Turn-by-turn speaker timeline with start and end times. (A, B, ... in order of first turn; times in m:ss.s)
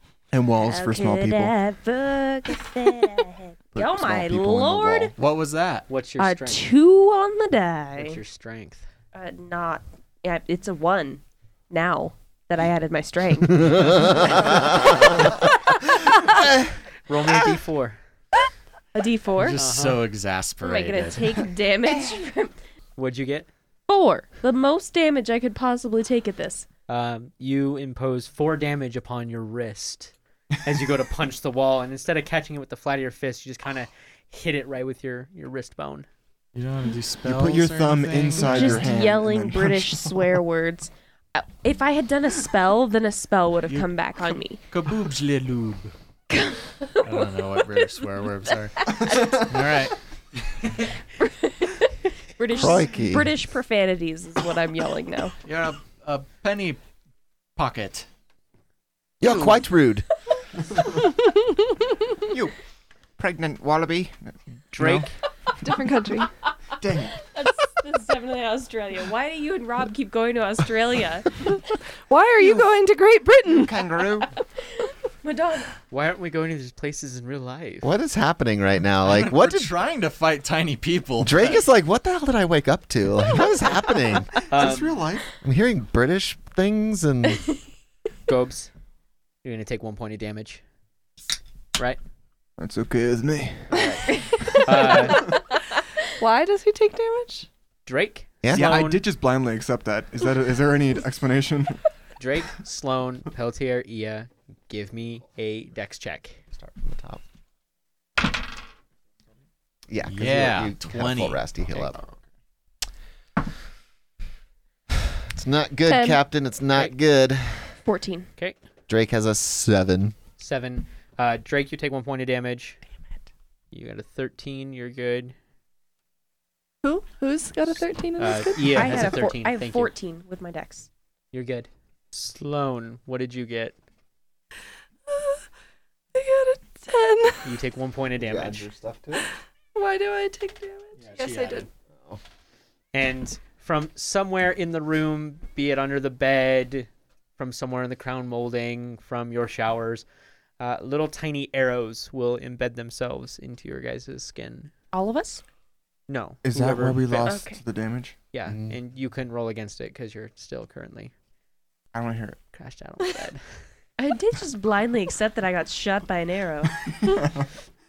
0:00.3-0:01.5 A
0:00.6-0:05.1 B
0:03.7-0:05.1 C
0:05.2-0:05.9 D
0:05.9-0:06.7 E
0:06.2-0:08.2 B
0:08.0-0:08.9 E
0:09.1-0:15.3 B
0:13.6-0:15.2 C
0:17.0-0:18.0 E
0:18.9-0:19.6 B
0:19.4-0:21.5 D
0:19.6-0:20.1 E
0:20.6-0:22.6 B
0:23.0-0:23.5 E
0:23.9-0:26.7 B
0:26.9-0:30.1 E
0:30.6-0:36.1 E
0:36.6-0:38.9 D
0:37.2-0:40.4 A
0:38.4-0:44.6 B
0:44.7-0:45.9 D
0:46.3-0:46.9 B
0:47.0-0:50.8 D
0:51.3-0:51.8 B
0:52.4-0:55.3 B
0:52.5-0:53.3 C
0:55.4-0:56.8 D
0:57.6-0:58.1 D
0:59.2-1:00.0 C
0:59.2-0:59.6 E
1:03.2-1:04.9 A
1:04.7-1:05.1 E
1:04.8-1:05.1 D
1:05.6-1:06.3 F
1:06.8-1:07.1 A
1:07.2-1:11.3 B
1:12.1-1:13.9 F
1:13.6-1:14.3 A
1:15.2-1:15.7 B
1:15.9-1:17.9 E
1:17.8-1:19.7 C
1:19.0-1:21.6 D
1:21.2-1:24.5 C
1:24.5-1:25.0 E
1:24.5-1:25.2 A
1:25.4-1:27.5 C
1:28.3-1:28.7 E
1:29.4-1:30.6 E
1:32.6-1:34.0 A
1:33.7-1:35.4 E
1:36.2-1:37.5 F
1:37.9-1:39.0 E
1:38.4-1:38.7 C
1:38.5-1:41.8 A
1:42.2-1:46.4 E
1:46.6-1:47.2 C
1:49.9-1:52.0 C
1:50.0-1:51.4 D
1:55.3-1:57.8 C
1:55.9-1:56.2 F
1:57.8-1:58.3 B
1:58.9-2:00.2 C
2:00.4-2:02.8 E
2:03.7-2:05.3 E
2:06.8-2:09.1 F
2:08.2-2:09.9 E
2:08.7-2:10.9 B
2:11.3-2:13.7 E
2:15.1-2:15.4 F
2:16.1-2:17.6 F
2:17.4-2:18.7 E
2:18.2-2:19.3 C
2:19.7-2:21.7 F
2:21.0-2:21.7 D
2:22.9-2:30.0 E
2:30.6-2:34.7 E
2:34.9-2:35.4 B
2:36.1-2:37.4 E
2:36.4-2:38.1 A
2:37.2-2:37.6 B
2:38.3-2:41.1 E
2:38.5-2:38.8 C
2:41.9-2:42.4 A
2:42.5-2:43.7 E
2:44.0-2:46.8 B
2:46.9-2:47.5 A